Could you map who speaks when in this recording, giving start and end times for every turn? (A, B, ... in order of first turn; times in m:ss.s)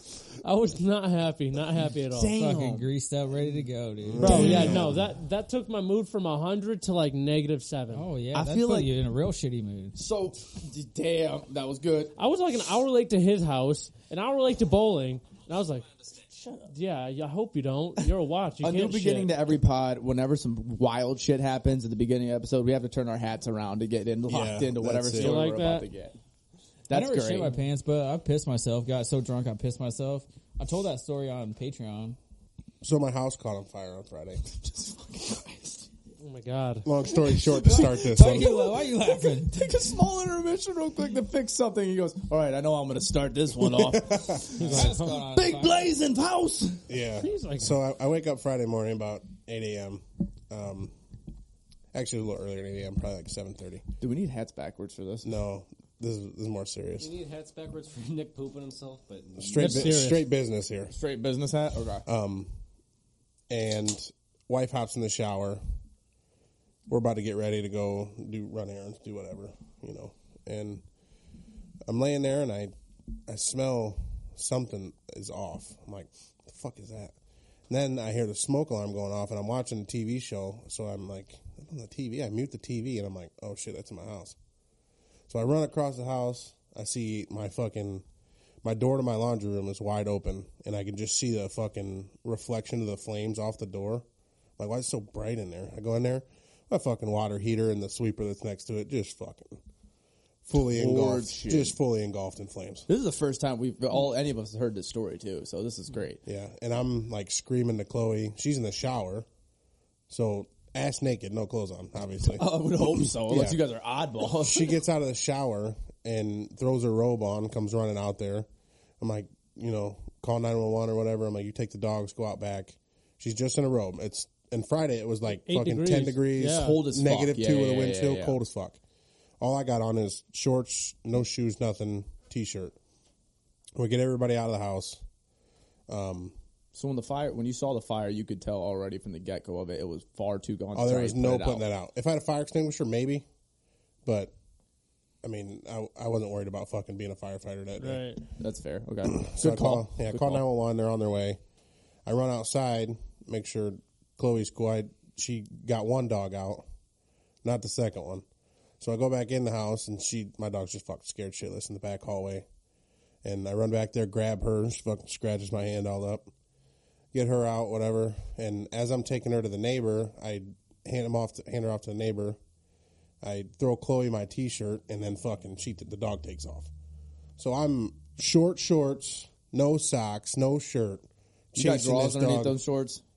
0:00.4-0:02.4 A
0:02.1-0:02.9 B
0:02.3-0:04.8 C
0:04.0-0:05.0 D
0:04.2-0:04.8 B
0:04.2-0:08.1 A
0:07.9-0:10.0 C
0:08.3-0:08.9 B
0:09.9-0:12.1 B
0:12.2-0:15.9 A
0:16.4-0:16.7 B
0:16.7-0:19.3 A
0:18.6-0:26.2 B
0:24.3-0:25.5 D
0:25.1-0:25.9 A
0:26.9-0:27.6 B
0:26.9-0:32.2 C
0:32.8-0:34.4 D
0:34.5-0:35.8 B
0:36.2-0:36.9 A
0:36.8-0:38.5 D
0:37.3-0:46.8 B
0:37.9-0:39.7 C
0:43.6-0:44.5 D
0:44.6-0:45.9 C
0:44.6-0:45.2 A
0:46.9-0:50.9 D
0:47.2-0:47.8 A
0:51.9-0:53.8 D
0:54.0-0:55.3 B
0:55.2-0:57.1 D
0:57.0-1:00.0 E
0:59.4-1:00.9 D
0:59.6-1:00.2 A
1:00.9-1:02.0 B
1:02.0-1:02.5 D
1:03.5-1:05.6 D
1:06.9-1:10.8 D
1:11.8-1:12.7 D
1:13.3-1:17.1 D
1:17.7-1:24.4 D
1:25.3-1:28.0 D
1:28.6-1:34.0 D
1:34.6-1:39.6 D
1:40.4-1:42.9 D
1:40.6-1:41.8 B
1:42.9-1:46.2 B
1:46.2-1:49.3 D
1:50.1-1:53.6 D
1:52.2-1:54.7 B
1:54.3-1:58.5 D
1:59.0-2:08.8 D
2:05.4-2:06.8 A
2:06.4-2:08.4 B
2:09.4-2:12.7 D
2:13.8-2:15.0 D
2:15.9-2:16.3 D
2:16.7-2:21.6 B
2:20.7-2:23.2 D
2:24.0-2:24.3 D
2:25.2-2:28.1 D
2:27.8-2:28.2 A
2:28.4-2:30.4 B
2:29.0-2:31.4 D
2:32.0-2:36.6 D
2:37.4-2:38.2 D
2:38.8-2:42.4 D
2:43.2-2:46.3 D
2:47.1-2:52.4 D
2:53.2-2:56.7 D
2:57.4-3:02.6 D
3:01.5-3:03.0 B